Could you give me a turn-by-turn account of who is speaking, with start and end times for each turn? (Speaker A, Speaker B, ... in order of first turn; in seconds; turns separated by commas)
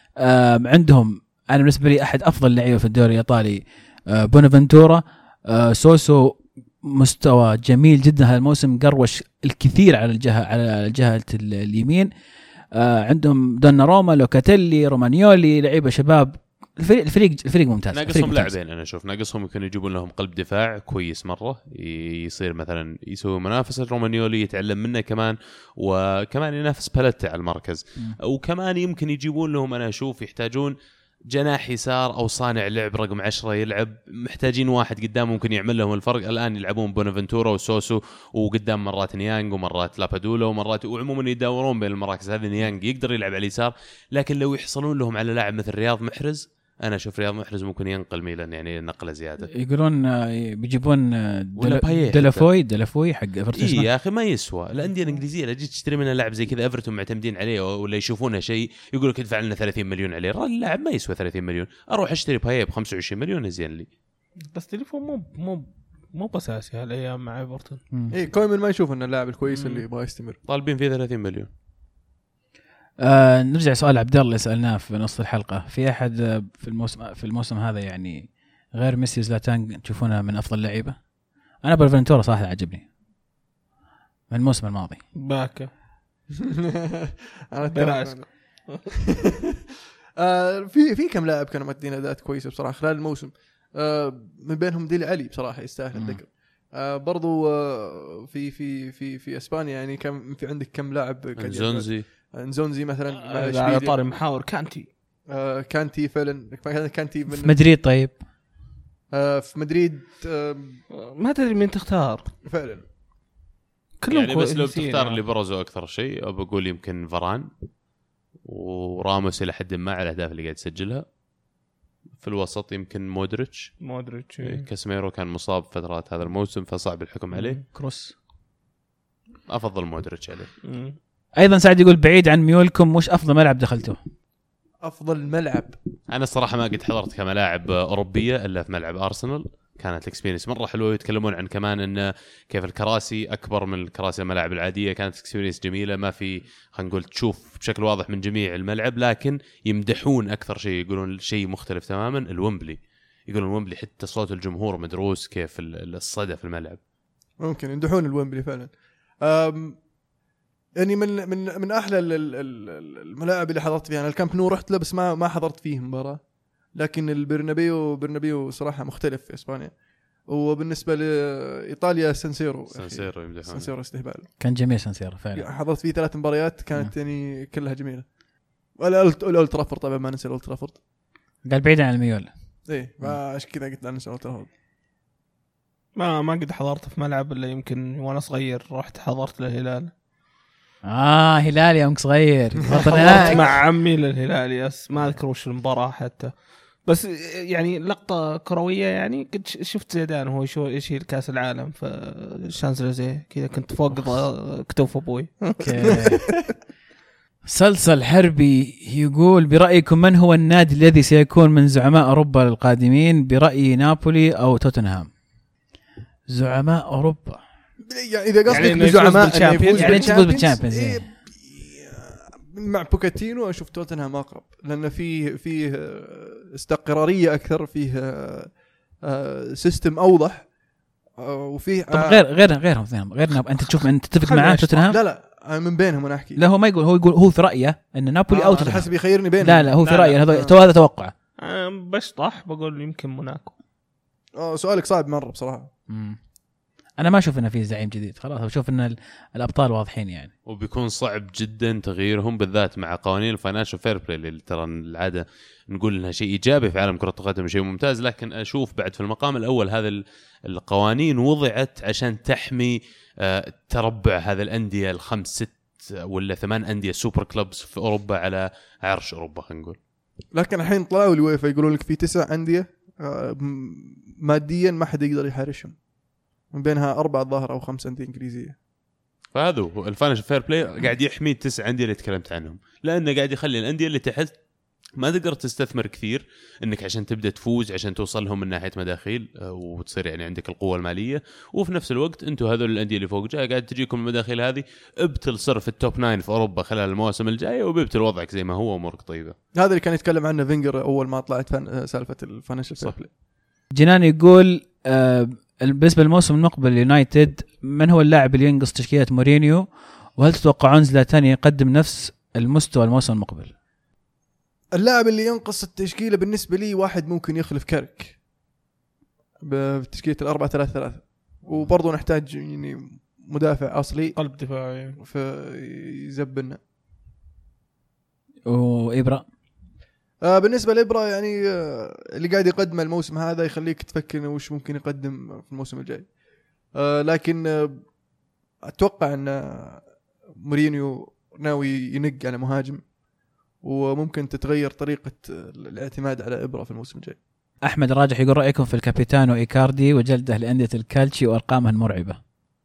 Speaker A: 0.2-12.1, Speaker A: 12.7-18.5, Speaker B: 17.9-30.7, Speaker B: 31.3-49.5, Speaker A: 49.5-53.9, Speaker B: 51.6-52.5, Speaker B: 53.5-63.9, Speaker C: 64.5-67.8, Speaker D: 68.1-70.4, Speaker C: 69.5-69.8, Speaker B: 70.5-71.5, Speaker A: 73.0-81.0, Speaker A: 81.6-82.9, Speaker A: 84.3-85.0, Speaker C: 85.2-85.7, Speaker D: 86.4-89.4, Speaker C: 87.7-88.8, Speaker D: 90.2-104.0, Speaker A: 95.9-96.2, Speaker B: 101.4-102.0, Speaker C: 103.2-104.9, Speaker D: 105.3-107.6, Speaker A: 107.3-108.2, Speaker D: 109.1-110.8, Speaker C: 110.9-112.3, Speaker D: 112.4-112.8, Speaker C: 114.0-115.2, Speaker B: 114.1-117.5, Speaker B: 118.4-121.0, Speaker B: 122.2-123.7, Speaker C: 123.8-124.7, Speaker B: 124.4-127.6, Speaker A: 127.7-128.1, Speaker B: 129.5-130.5, Speaker C: 130.6-130.9, Speaker A: 131.4-134.0, Speaker D: 134.8-135.7, Speaker B: 136.1-156.8, Speaker D: 157.4-158.7, Speaker D: 159.2-159.8, Speaker D: 160.8-166.2, Speaker D: 166.7-169.7, Speaker D: 170.3-174.3, Speaker B: 172.7-173.7, Speaker A: 174.4-175.4, Speaker D: 175.3-178.1, Speaker D: 178.8-180.8, Speaker A: 181.4-182.3, Speaker D: 182.7-184.5, Speaker C: 185.9-189.9, Speaker A: 190.8-193.4, Speaker D: 192.8-193.6, Speaker C: 192.8-206.0, Speaker D: 205.4-206.5, Speaker A: 205.6-206.2, Speaker A: 207.4-215.1, Speaker A: 216.3-217.4, Speaker D: 217.8-230.5, Speaker C: 218.4-220.2, Speaker A: 219.7-221.1, Speaker D: 231.2-232.2, Speaker A: 231.9-235.0, Speaker C: 234.2-234.7, Speaker D: 234.6-236.4, Speaker A: 236.3-241.1, Speaker D: 238.3-240.5, Speaker C: 239.8-240.2, Speaker C: 241.4-243.5, Speaker D: 244.3-245.7, Speaker A: 245.9-246.2, Speaker A: 247.0-250.3, Speaker B: 250.4-269.8, Speaker D: 270.3-275.8, Speaker D: 276.5-278.6, Speaker B: 279.3-284.3, Speaker B: 284.9-299.3, Speaker D: 299.5-303.1, Speaker A: 303.7-309.6, Speaker A: 310.1-313.5, Speaker D: 314.7-318.1, Speaker D: 319.4-324.1, Speaker C: 324.1-325.0, Speaker D: 325.0-326.6, Speaker A: 328.4-329.2, Speaker D: 330.2-336.1, Speaker D: 336.7-337.8, Speaker D: 338.6-339.8, Speaker D: 340.4-342.8, Speaker D: 343.6-347.2, Speaker A: 347.6-352.2